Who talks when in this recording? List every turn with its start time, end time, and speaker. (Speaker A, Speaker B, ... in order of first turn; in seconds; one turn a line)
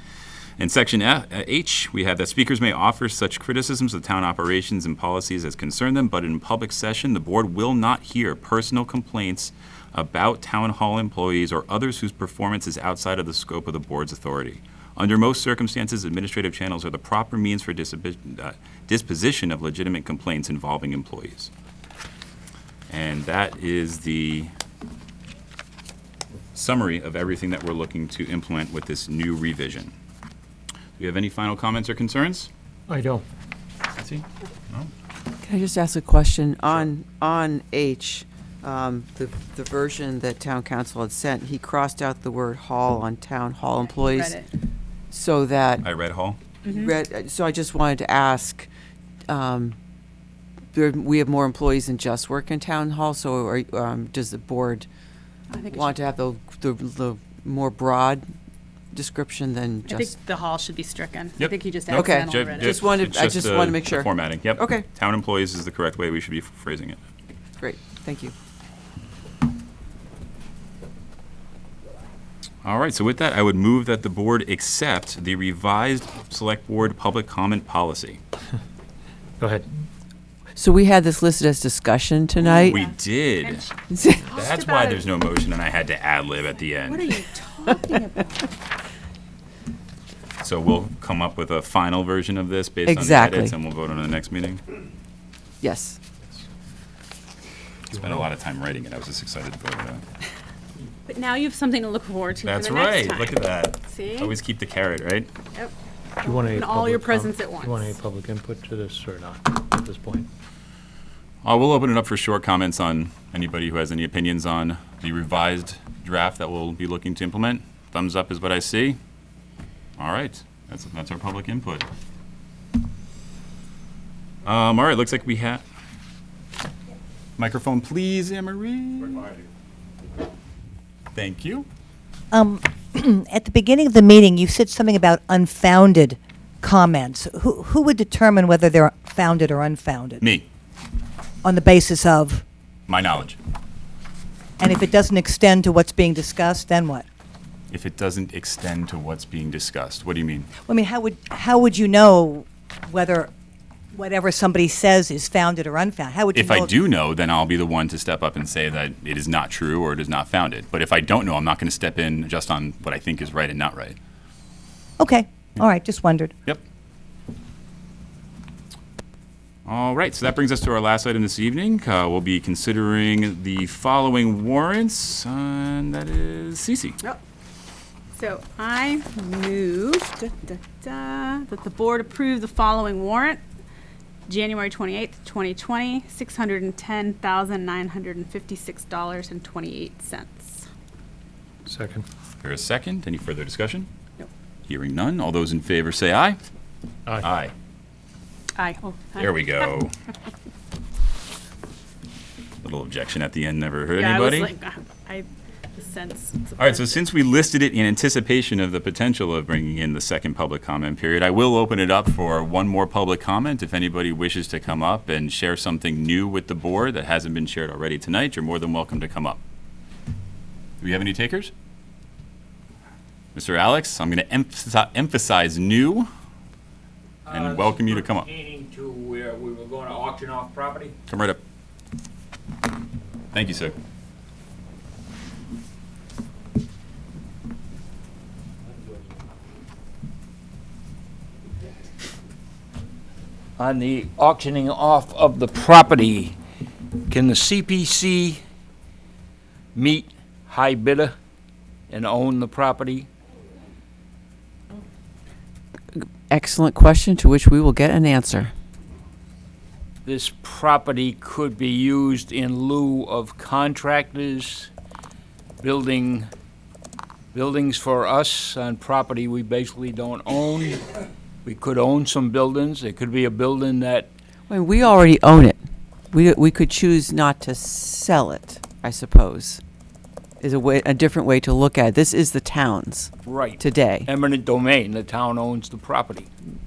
Speaker A: 0.6-21.5
Speaker A: 22.9-24.5
Speaker A: 26.6-29.9
Speaker A: 31.0-32.5
Speaker B: 32.9-33.2
Speaker A: 34.0-34.9
Speaker C: 35.4-44.5
Speaker D: 43.8-44.5
Speaker C: 45.1-45.9
Speaker A: 45.8-46.4
Speaker D: 46.6-46.9
Speaker C: 46.6-48.7
Speaker C: 49.3-49.8
Speaker C: 50.7-54.9
Speaker D: 55.5-56.0
Speaker C: 55.7-58.3
Speaker C: 58.9-60.1
Speaker D: 59.9-62.8
Speaker A: 61.4-67.0
Speaker C: 61.9-64.9
Speaker C: 67.6-68.3
Speaker A: 72.6-78.2
Speaker B: 79.4-79.7
Speaker C: 80.6-82.8
Speaker A: 82.4-83.7
Speaker D: 82.6-83.7
Speaker C: 83.9-84.3
Speaker D: 84.2-85.1
Speaker A: 84.3-87.1
Speaker D: 86.8-88.5
Speaker A: 90.4-94.6
Speaker C: 92.9-93.5
Speaker C: 95.6-96.0
Speaker A: 97.9-100.0
Speaker B: 97.9-98.3
Speaker D: 101.1-104.3
Speaker A: 102.5-105.3
Speaker D: 105.5-108.0
Speaker B: 106.2-110.3
Speaker A: 111.4-119.0
Speaker A: 120.0-121.9
Speaker A: 124.5-125.6
Speaker A: 127.4-129.3
Speaker A: 131.1-131.7
Speaker E: 132.3-140.2
Speaker A: 140.2-140.5
Speaker E: 141.4-142.4
Speaker A: 142.9-143.4
Speaker E: 144.6-147.1
Speaker A: 147.7-150.5
Speaker E: 150.7-153.3
Speaker E: 153.9-156.7
Speaker A: 156.3-164.0
Speaker E: 165.0-166.3
Speaker A: 169.7-177.0
Speaker D: 178.1-183.4
Speaker D: 184.3-190.7
Speaker B: 191.7-192.1
Speaker A: 192.4-193.9
Speaker A: 194.7-196.4
Speaker A: 197.2-197.5
Speaker D: 198.6-199.5
Speaker A: 199.2-199.9
Speaker A: 202.6-204.5
Speaker D: 204.0-207.0
Speaker A: 206.6-219.4
Speaker A: 220.8-221.5
Speaker A: 223.3-226.1
Speaker F: 227.3-230.9
Speaker A: 227.3-228.3
Speaker A: 231.1-231.4
Speaker A: 233.3-233.8
Speaker F: 243.6-246.4
Speaker F: 247.1-248.4
Speaker F: 249.8-251.1
Speaker F: 251.9-253.1
Speaker C: 256.3-258.5
Speaker F: 260.1-264.7
Speaker F: 265.6-266.3
Speaker F: 267.3-274.1
Speaker C: 274.5-279.6
Speaker C: 280.4-284.1
Speaker F: 283.3-286.3